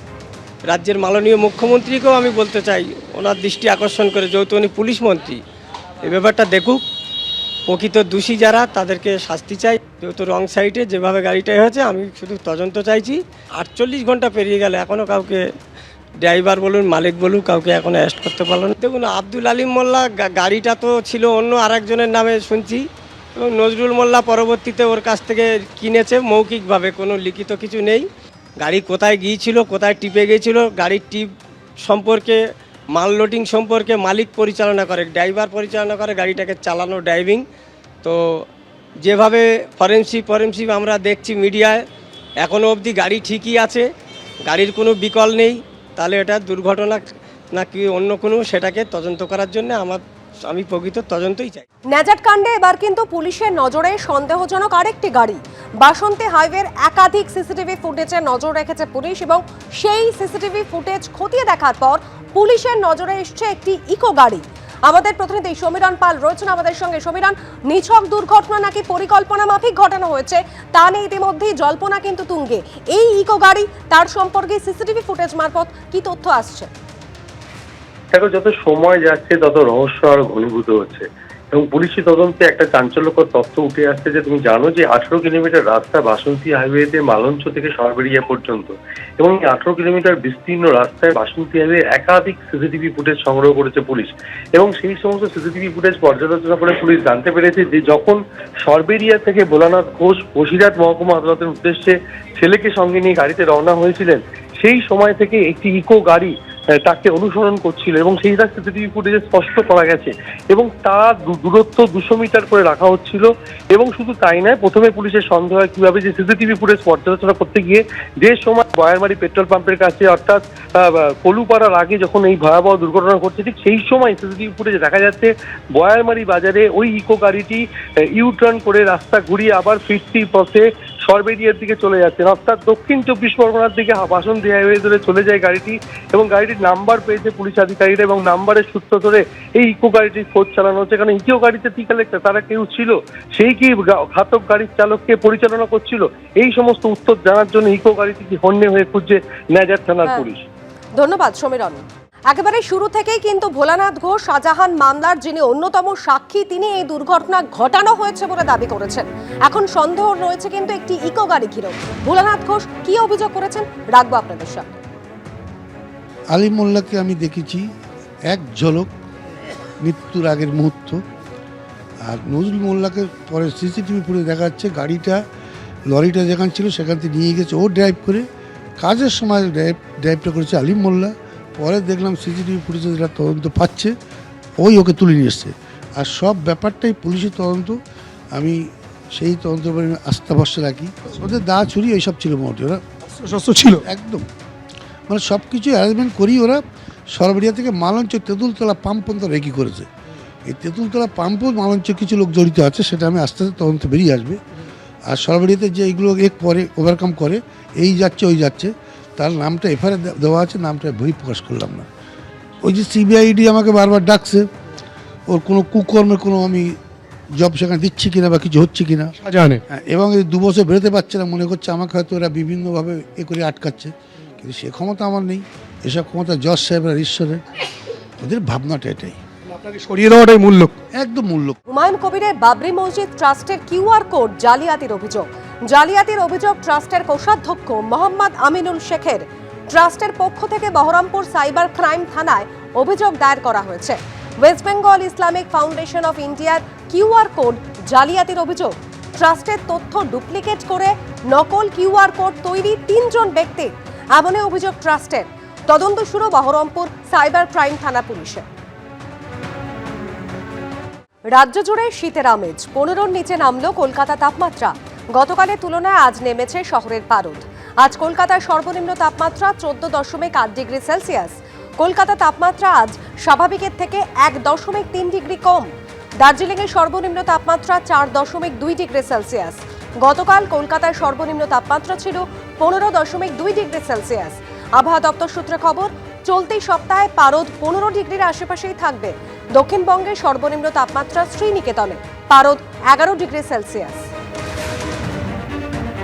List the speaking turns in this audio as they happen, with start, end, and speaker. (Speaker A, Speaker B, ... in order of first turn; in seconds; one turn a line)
Speaker A: 0.7-5.4
Speaker A: 6.0-6.8
Speaker A: 7.7-15.4
Speaker A: 16.2-22.8
Speaker A: 23.4-28.1
Speaker A: 28.6-31.3
Speaker A: 31.8-32.4
Speaker A: 33.0-37.4
Speaker A: 39.0-41.8
Speaker A: 42.4-43.8
Speaker A: 44.5-47.0
Speaker A: 47.5-51.6
Speaker B: 51.9-76.7
Speaker C: 78.1-106.3
Speaker C: 106.8-150.5
Speaker B: 151.0-164.7
Speaker D: 166.3-167.7
Speaker D: 168.3-168.9
Speaker D: 169.8-171.0
Speaker D: 172.0-175.2
Speaker D: 175.9-178.2
Speaker D: 178.8-183.9
Speaker D: 184.6-187.8
Speaker D: 188.3-192.8
Speaker E: 193.2-193.8
Speaker D: 193.8-194.3
Speaker D: 195.1-199.9
Speaker D: 200.5-204.4
Speaker D: 205.1-211.9
Speaker D: 212.6-214.5
Speaker D: 215.3-216.8
Speaker D: 217.3-219.2
Speaker E: 219.2-219.6
Speaker D: 219.7-227.4
Speaker D: 228.2-229.2
Speaker E: 229.6-230.8
Speaker D: 230.9-231.6
Speaker B: 231.7-258.5
Speaker B: 261.3-275.7
Speaker B: 276.2-294.1